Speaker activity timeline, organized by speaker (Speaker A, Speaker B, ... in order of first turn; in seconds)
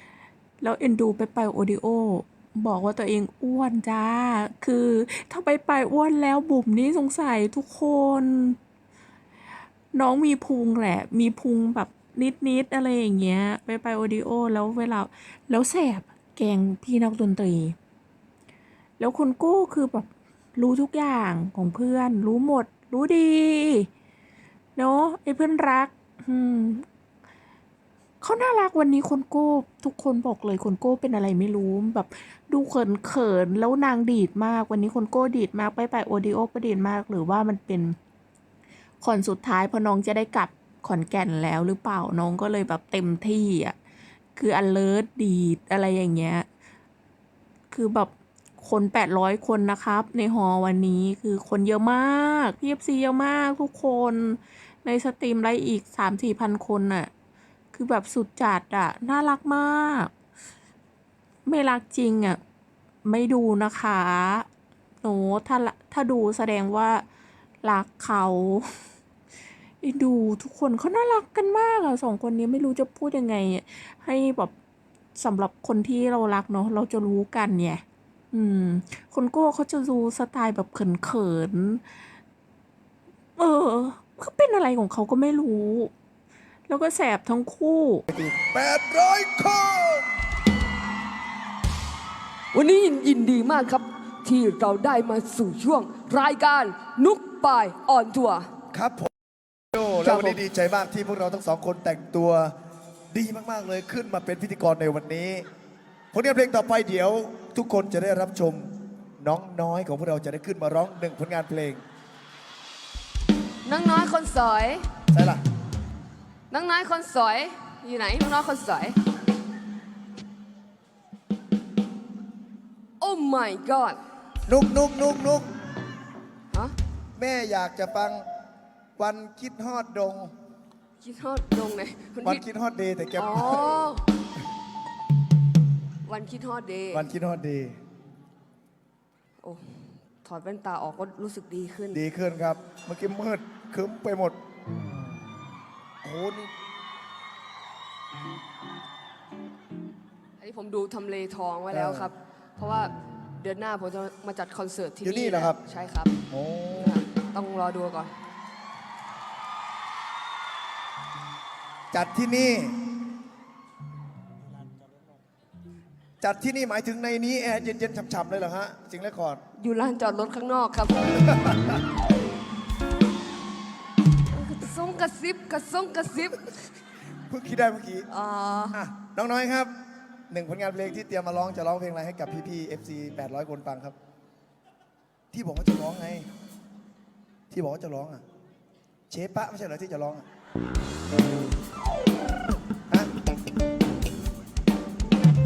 Speaker A: 0.6-8.6, 9.9-17.8, 19.0-23.9, 24.8-26.8, 28.2-38.0, 39.0-43.8, 44.4-46.5, 47.7-57.1, 57.7-60.1, 61.5-62.4, 63.0-64.5, 65.0-67.0, 67.6-68.7, 69.8-74.5, 75.2-81.8, 83.4-85.9, 86.7-88.0
Speaker B: 88.1-90.1, 98.7-99.1, 99.7-102.5, 103.1-105.4, 106.1-111.8, 115.1-115.4, 124.5-125.5, 127.2-128.2, 129.0-130.3, 132.2-133.8, 136.9-137.8, 141.9-144.4, 146.0-146.5, 151.7-152.1, 155.0-155.6, 156.3-157.0, 161.9-162.8, 166.2-169.4, 171.2-171.6, 177.3-178.1, 178.7-179.7, 180.3-183.9, 185.3-186.3, 187.5-188.2, 189.1-190.2
Speaker C: 92.5-98.5, 100.0-100.4, 113.6-114.8, 116.5-119.0, 123.0-124.0, 131.0-132.4, 133.2-134.0, 136.1-137.1, 139.4-142.0, 150.4-156.1, 156.8-158.1, 169.6-171.1, 174.3-176.5, 178.1-178.8